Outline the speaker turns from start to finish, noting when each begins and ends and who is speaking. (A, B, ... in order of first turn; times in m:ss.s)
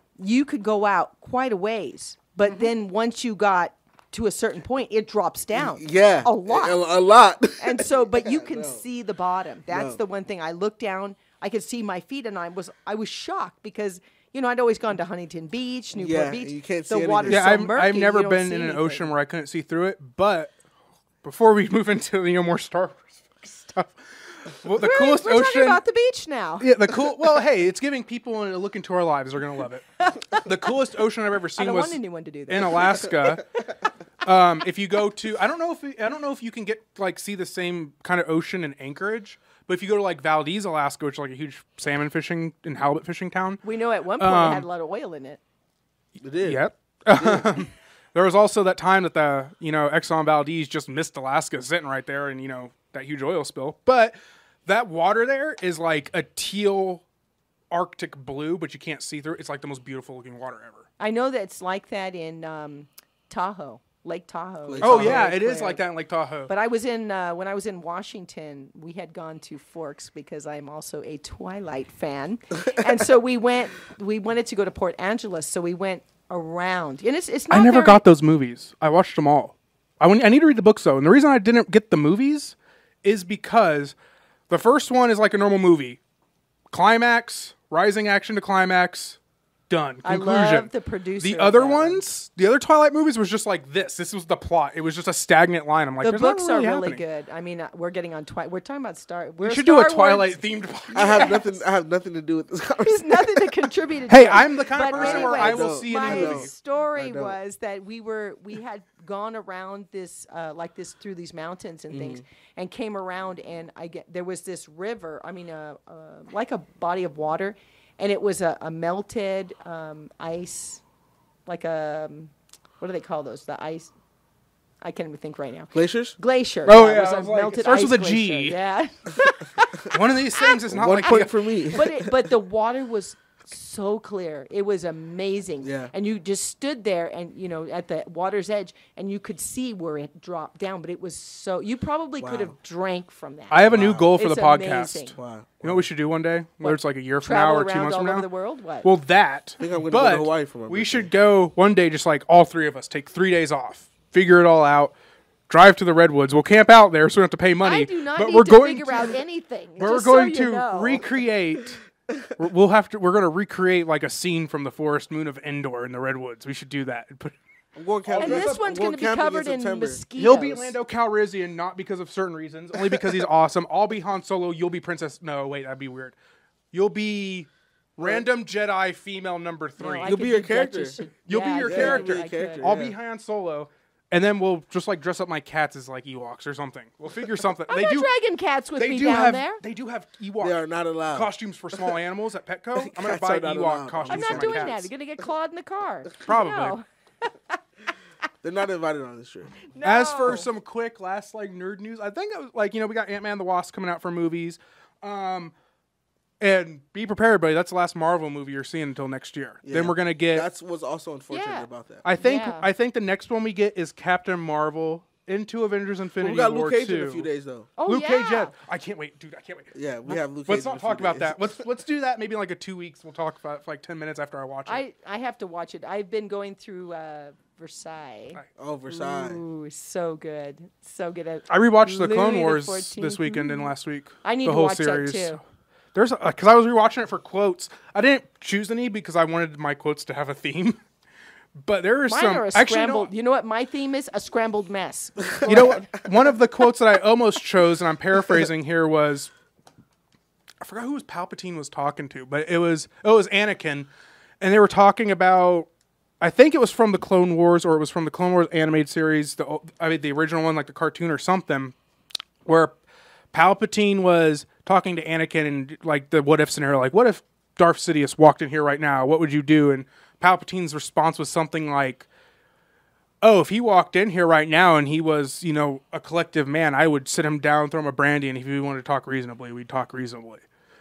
0:00.2-0:06.8 A
0:05.5-0:08.8 B
0:07.6-0:19.1 A
0:09.7-0:10.0 B
0:15.9-0:17.5 B
0:17.3-0:20.6 C
0:21.2-0:25.8 C
0:24.8-0:26.7 A
0:26.6-0:33.5 C
0:30.0-0:30.5 A
0:31.6-0:33.3 A
0:34.2-0:43.6 C
0:43.6-0:45.4 A
0:44.2-0:44.7 C
0:46.2-0:46.6 B
0:46.4-0:54.1 C
0:47.2-0:47.6 B
0:54.7-0:57.0 C
0:57.7-1:00.9 C
1:01.0-1:05.8 A
1:04.7-1:05.4 B
1:04.8-1:06.5 C
1:06.5-1:18.0 A
1:12.7-1:13.0 B
1:17.5-1:23.9 C
1:24.5-1:26.0 C
1:26.7-1:29.2 C
1:29.7-1:37.0 C
1:30.0-1:32.0 A
1:36.0-1:41.6 A
1:39.4-1:41.4 C
1:40.9-1:43.6 B
1:42.8-2:00.8 A
1:44.1-1:46.5 C
1:44.9-1:47.4 B
1:51.9-1:52.2 B
2:01.5-2:03.9 A
2:04.8-2:25.2 A
2:05.7-2:06.2 B
2:06.7-2:08.6 C
2:09.9-2:11.4 C
2:10.7-2:12.3 B
2:15.6-2:15.9 B
2:22.2-2:22.6 B
2:23.5-2:28.3 C
2:23.7-2:24.2 B
2:25.2-2:25.9 B
2:26.6-2:28.9 A
2:28.8-2:34.9 C
2:29.6-2:31.1 B
2:35.5-2:39.2 C
2:37.6-2:41.1 A
2:39.8-2:41.8 C
2:42.4-2:47.4 C
2:47.8-2:50.0 B
2:48.1-2:48.6 C
2:48.1-2:50.8 A
2:50.2-2:56.2 C
2:52.9-2:53.2 B
2:56.7-3:00.2 C
2:58.0-2:58.2 B
2:59.8-3:02.7 A
3:00.0-3:01.0 B
3:01.3-3:08.1 C
3:01.6-3:03.0 B
3:07.7-3:09.6 A
3:08.8-3:10.6 C
3:10.4-3:11.3 B
3:11.1-3:14.9 C
3:12.8-3:14.8 B
3:14.1-3:16.8 A
3:16.2-3:16.8 C
3:18.4-3:19.6 B
3:19.7-3:20.5 A
3:19.8-3:25.5 C
3:26.4-3:30.5 C
3:29.6-3:32.0 B
3:31.3-3:31.7 A
3:32.0-3:37.3 C
3:32.2-3:32.7 A
3:36.2-3:37.7 B
3:37.8-3:38.5 A
3:37.9-3:44.8 C
3:39.7-3:41.6 B
3:44.7-3:53.7 A
3:48.6-3:49.4 B
3:51.5-3:55.4 C
3:54.2-3:55.4 A
3:55.9-4:00.8 C
4:01.6-4:03.1 C
4:02.1-4:05.9 A
4:05.2-4:06.0 B
4:05.5-4:09.3 C
4:10.6-4:13.9 C
4:14.4-4:15.7 C
4:16.2-4:21.7 C
4:22.5-4:22.8 C
4:23.3-4:32.1 C
4:33.2-4:40.4 C